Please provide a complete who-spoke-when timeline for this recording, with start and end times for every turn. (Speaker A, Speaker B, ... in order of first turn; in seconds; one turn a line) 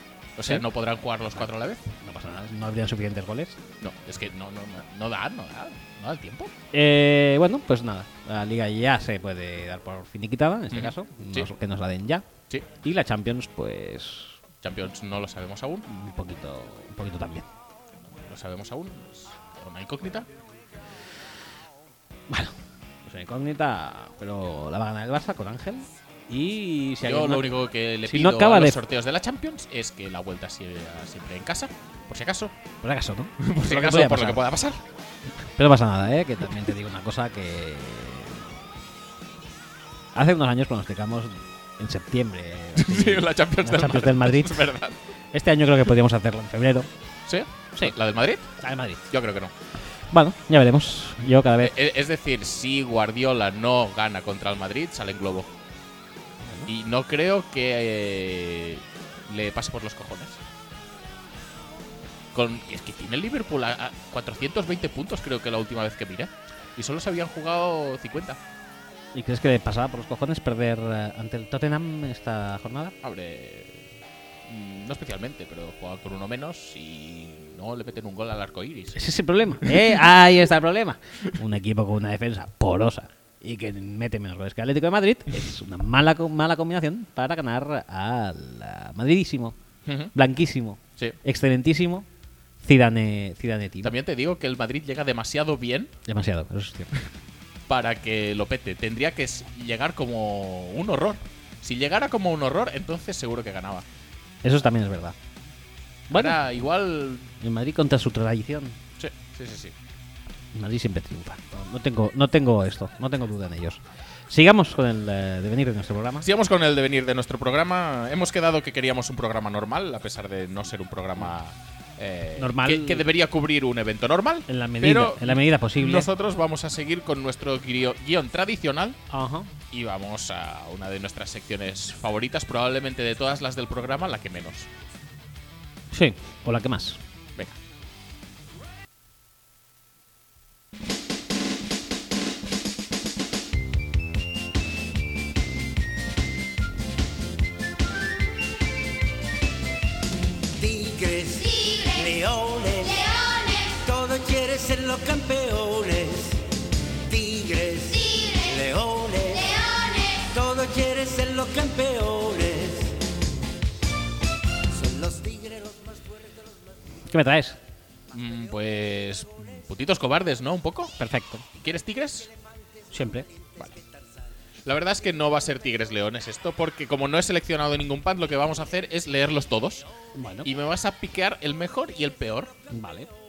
Speaker A: 0.4-1.9
Speaker B: 2.0-3.6
Speaker A: 3.8-6.5
Speaker B: 6.7-12.2
Speaker A: 10.7-11.5
Speaker B: 12.8-14.4
Speaker A: 14.6-15.9
Speaker B: 15.9-17.5
Speaker A: 18.1-20.3
Speaker B: 22.3-27.5
Speaker A: 27.0-32.5
Speaker B: 28.1-28.8
Speaker B: 32.8-34.4
Speaker A: 33.4-34.8
Speaker B: 35.5-38.5
Speaker B: 40.1-44.7
Speaker A: 42.8-45.0
Speaker B: 45.3-46.9
Speaker A: 47.3-48.5
Speaker B: 48.6-49.0
Speaker A: 49.1-49.5
Speaker B: 50.1-51.8
Speaker A: 51.6-55.5
Speaker B: 56.4-56.7
Speaker A: 56.7-60.4
Speaker A: 62.3-68.4
Speaker B: 69.1-72.9
Speaker A: 73.0-73.9
Speaker A: 74.4-79.0
Speaker B: 78.9-89.5
Speaker A: 79.6-79.9
Speaker A: 89.9-90.1
Speaker B: 90.1-92.1
Speaker B: 92.6-94.0
Speaker A: 93.8-95.9
Speaker B: 96.0-97.1
Speaker A: 97.7-103.9
Speaker B: 104.4-105.2
Speaker B: 106.1-106.4
Speaker A: 106.1-107.3
Speaker B: 107.4-108.8
Speaker A: 109.0-109.8
Speaker B: 110.5-116.3
Speaker A: 116.2-129.0
Speaker B: 122.4-123.1
Speaker B: 124.5-126.1
Speaker B: 129.1-129.5
Speaker A: 129.7-134.7
Speaker B: 135.9-137.0
Speaker C: 150.5-163.1
Speaker C: 164.7-166.3
Speaker B: 167.1-167.6
Speaker A: 168.1-170.9
Speaker B: 171.0-171.4
Speaker A: 171.6-172.3
Speaker B: 172.9-173.3
Speaker A: 174.6-179.9
Speaker B: 180.1-180.5
Speaker A: 180.4-182.5
Speaker B: 182.7-183.1